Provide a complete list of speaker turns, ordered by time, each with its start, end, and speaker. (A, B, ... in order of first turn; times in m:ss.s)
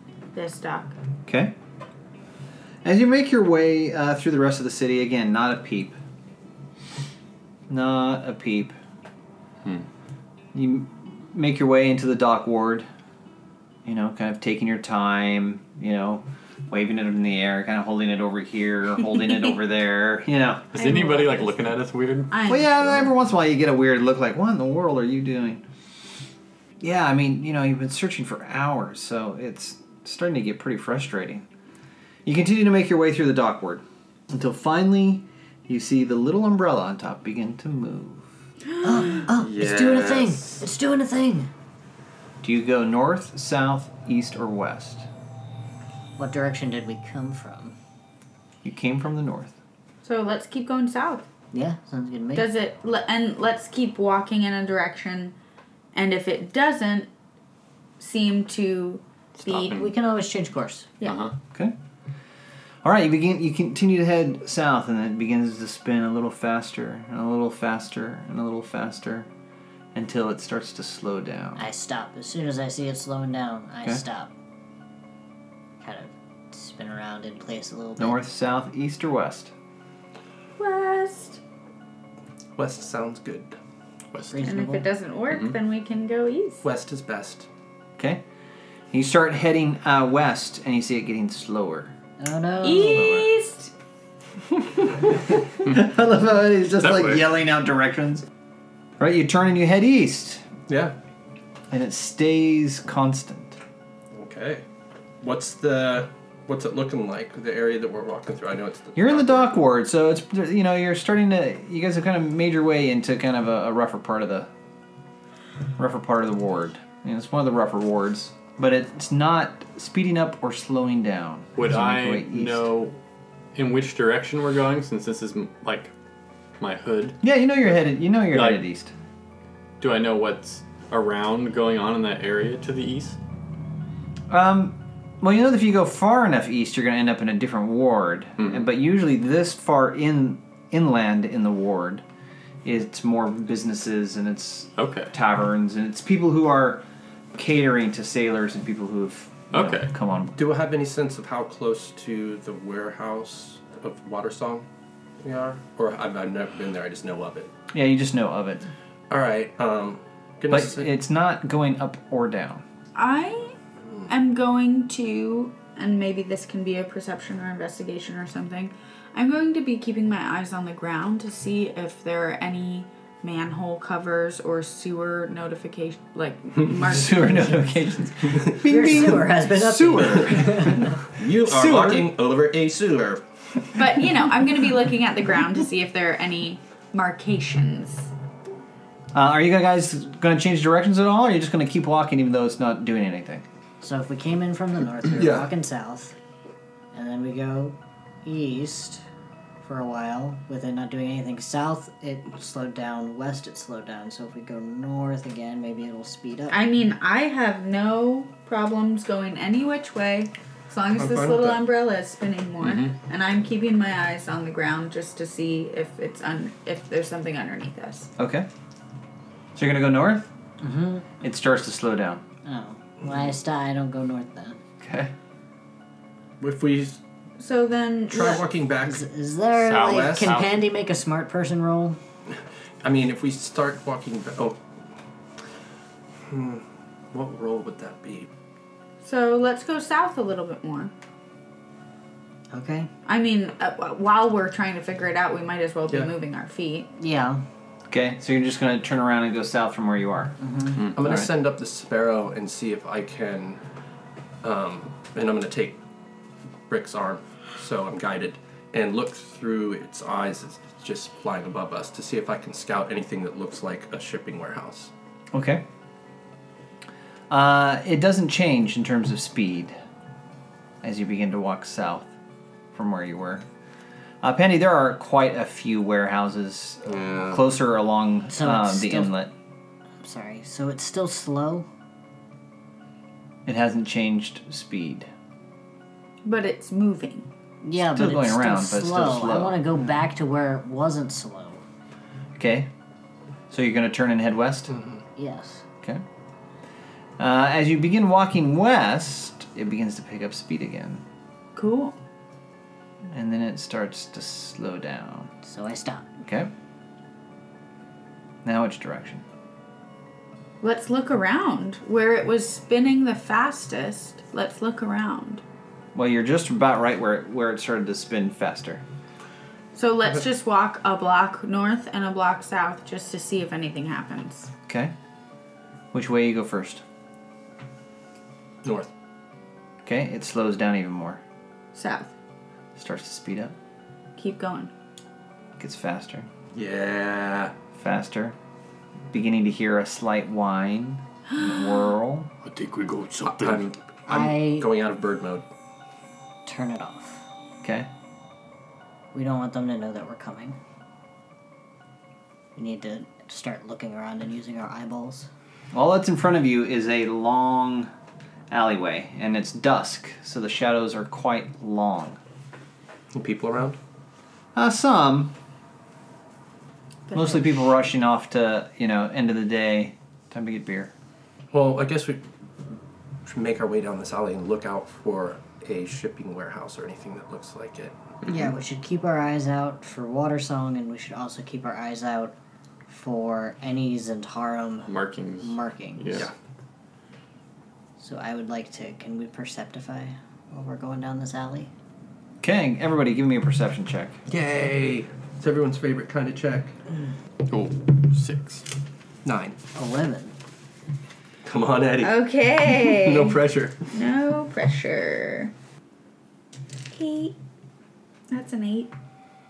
0:00.3-0:00.9 A
0:01.3-0:01.5 B
0:02.8-0:06.0 B
0:07.7-0:08.8 B
0:10.5-0:12.9 B
0:13.8-0:20.7 B
0:20.7-0:22.4 C
0:20.7-0:21.5 A
0:22.3-0:23.1 A
0:22.5-0:25.6 B
0:26.8-0:31.4 B
0:32.2-0:38.3 B
0:38.8-0:41.5 D
0:39.3-0:40.6 C
0:42.4-0:45.1 B
0:46.2-0:47.8 D
0:48.6-0:49.6 B
0:50.0-0:51.3 A
0:51.5-0:52.5 D
0:52.3-0:55.4 A
0:55.9-0:57.1 A
0:58.0-0:59.9 A
0:59.4-0:59.9 C
0:59.7-1:00.9 D
1:01.0-1:01.3 C
1:02.8-1:09.3 B
1:09.9-1:11.7 B
1:11.6-1:14.3 D
1:15.8-1:18.2 D
1:18.0-1:19.5 B
1:20.6-1:21.4 A
1:22.6-1:23.6 E
1:24.1-1:24.4 C
1:24.3-1:24.9 D
1:24.4-1:26.6 A
1:26.6-1:27.5 E
1:28.0-1:28.2 B
1:28.9-1:31.9 B
1:32.2-1:33.3 D
1:32.6-1:33.7 A
1:35.1-1:38.2 B
1:36.8-1:37.2 C
1:39.0-1:40.4 B
1:40.7-1:40.9 E
1:41.7-1:43.6 B
1:44.1-1:44.6 E
1:45.2-1:49.5 E
1:48.9-1:54.5 B
1:55.8-2:02.7 B
2:01.6-2:03.0 C
2:03.5-2:05.9 C
2:06.6-2:07.2 C
2:07.2-2:08.9 B
2:08.3-2:08.6 C
2:09.8-2:13.2 C
2:14.3-2:22.0 B
2:18.4-2:18.6 C
2:22.6-2:26.8 B
2:24.8-2:25.1 C
2:27.3-2:30.4 B
2:29.5-2:29.9 C
2:30.4-2:34.7 E
2:35.2-2:37.5 E
2:37.7-2:38.7 B
2:39.1-2:40.9 E
2:40.5-2:42.6 B
2:43.0-2:43.6 A
2:44.1-2:57.8 A
2:56.7-3:02.1 B
2:58.5-3:01.0 D
3:01.1-3:04.0 E
3:03.7-3:08.1 A
3:09.1-3:13.4 B
3:13.8-3:16.1 D
3:15.1-3:15.5 E
3:16.9-3:19.0 D
3:19.6-3:26.6 D
3:26.5-3:38.1 A
3:30.9-3:31.6 E
3:32.6-3:32.9 C
3:38.2-3:38.5 B
3:39.5-3:40.3 B
3:40.6-3:41.1 D
3:41.2-3:42.2 B
3:42.4-3:44.6 D
3:44.8-3:45.1 B
3:46.4-3:47.0 E
3:47.4-3:48.4 A
3:48.1-3:49.0 E
3:48.8-3:52.0 D
3:49.6-3:50.6 C
3:49.8-3:50.4 E
3:52.8-3:54.6 E
3:56.3-3:58.3 E
3:59.0-4:00.9 A
4:02.5-4:02.9 D
4:03.0-4:06.9 A
4:07.0-4:07.4 D
4:07.9-4:10.4 B
4:10.4-4:10.9 D
4:10.9-4:13.6 E
4:11.0-4:11.3 B
4:14.4-4:15.8 E
4:16.7-4:24.9 E
4:25.3-4:25.6 B
4:27.3-4:29.8 B
4:30.8-4:32.1 B
4:32.7-4:33.4 B
4:34.2-4:39.3 B
4:36.9-4:37.4 E
4:38.3-4:39.1 D
4:40.0-4:41.7 D
4:43.4-4:45.1 B
4:46.2-4:47.3 A
4:47.6-4:51.6 D
4:47.8-4:49.6 B
4:52.4-4:52.7 B
4:53.5-4:54.7 B
4:54.7-4:55.0 E
4:55.1-4:55.6 D
4:57.2-5:01.0 B
5:01.6-5:02.0 A
5:03.1-5:05.3 B
5:05.4-5:06.1 D
5:06.2-5:06.5 B
5:08.4-5:09.2 B
5:10.6-5:15.4 A
5:15.9-5:18.8 B
5:19.7-5:24.5 A
5:24.7-5:24.9 B
5:25.9-5:26.8 B
5:28.6-5:28.9 E
5:29.8-5:31.2 B
5:31.7-5:32.1 A
5:32.8-5:33.5 B
5:34.2-5:34.7 A
5:35.6-5:36.3 B
5:36.5-5:37.5 E
5:37.8-5:38.4 B
5:39.1-5:42.3 B
5:42.4-5:43.7 C
5:43.2-5:45.4 E
5:44.1-5:44.7 D
5:46.4-5:47.2 D
5:47.6-5:47.9 B
5:49.1-5:50.6 D
5:52.6-5:55.3 D
5:55.7-5:57.9 B
5:58.5-6:02.2 B
6:03.1-6:03.8 E
6:04.5-6:05.3 B
6:07.1-6:07.6 A
6:07.1-6:10.9 B
6:11.5-6:12.2 E
6:13.2-6:18.0 E
6:18.2-6:22.3 D
6:22.9-6:26.2 D
6:24.9-6:26.3 C
6:28.0-6:31.7 D
6:32.4-6:34.2 B
6:34.3-6:36.8 E
6:37.4-6:38.6 C
6:39.2-6:39.6 E
6:39.7-6:40.3 D
6:41.4-6:43.9 E
6:42.0-6:43.4 A
6:43.9-6:45.5 A
6:46.9-6:47.4 A
6:48.3-6:48.9 A